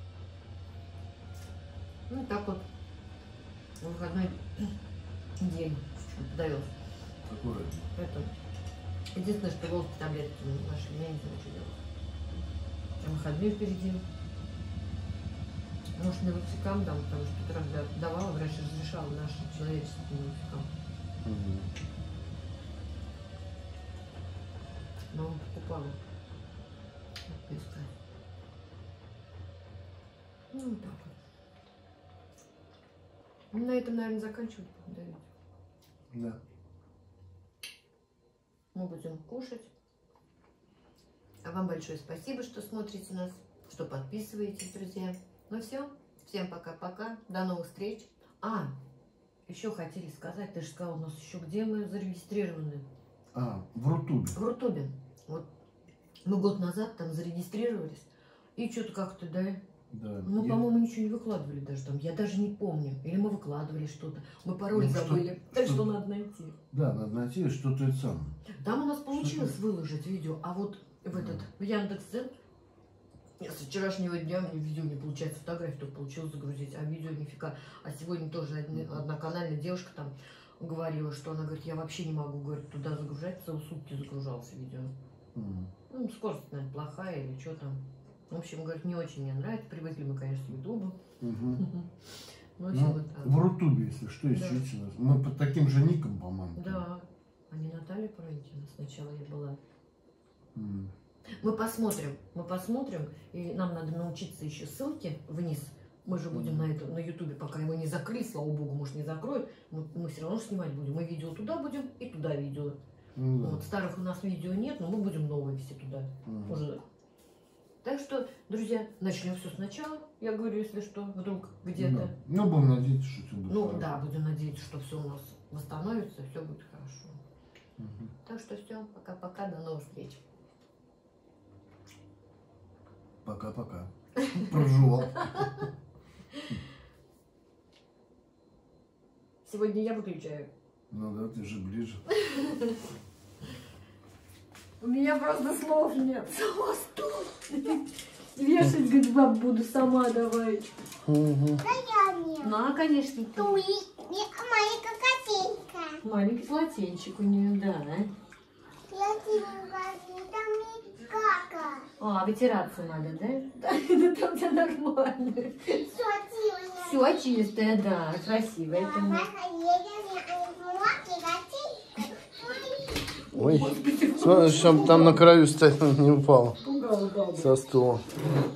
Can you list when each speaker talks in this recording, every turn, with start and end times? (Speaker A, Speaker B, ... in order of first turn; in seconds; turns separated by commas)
Speaker A: 2.1-2.7, Speaker A: 3.8-4.8, Speaker A: 5.4-6.7, Speaker B: 7.2-7.9, Speaker A: 7.9-8.3, Speaker A: 9.1-11.8, Speaker A: 13.0-14.0, Speaker A: 15.9-20.7, Speaker B: 21.2-21.7, Speaker A: 25.1-26.0, Speaker A: 27.3-27.9, Speaker A: 30.5-31.1, Speaker A: 33.5-35.2, Speaker B: 36.1-36.4, Speaker A: 38.7-39.7, Speaker A: 41.4-48.7, Speaker A: 49.5-52.9, Speaker B: 53.3-54.3, Speaker A: 54.3-55.5, Speaker A: 56.2-59.6, Speaker B: 59.9-60.6, Speaker A: 60.2-66.6, Speaker B: 64.7-65.8, Speaker B: 66.7-68.3, Speaker A: 68.5-72.3, Speaker B: 69.1-69.5, Speaker B: 71.1-71.4, Speaker A: 73.4-84.9, Speaker B: 78.7-79.0, Speaker B: 85.3-85.7, Speaker A: 85.9-91.0, Speaker B: 91.2-91.6, Speaker A: 91.5-91.9, Speaker A: 92.6-93.4, Speaker B: 92.7-96.8, Speaker A: 94.3-94.7, Speaker A: 96.5-99.6, Speaker B: 100.5-100.9, Speaker A: 101.3-112.8, Speaker B: 106.3-106.7, Speaker B: 113.1-113.6, Speaker A: 113.4-116.8, Speaker B: 116.2-116.6, Speaker A: 117.8-122.1, Speaker B: 121.8-123.9, Speaker A: 123.5-127.2, Speaker B: 127.8-128.1, Speaker A: 128.2-130.2, Speaker B: 133.2-135.7, Speaker A: 134.2-134.6, Speaker A: 135.2-135.6, Speaker A: 139.4-140.5, Speaker B: 140.9-142.0, Speaker A: 142.1-142.8, Speaker A: 144.8-150.7, Speaker B: 151.0-151.6, Speaker C: 151.6-152.5, Speaker A: 152.4-153.6, Speaker C: 153.4-156.0, Speaker A: 156.0-158.1, Speaker C: 158.9-161.9, Speaker A: 162.0-165.8, Speaker C: 165.7-167.0, Speaker A: 166.8-169.3, Speaker C: 168.7-173.0, Speaker A: 173.3-175.2, Speaker B: 173.3-176.6, Speaker A: 176.6-177.6, Speaker B: 177.3-178.2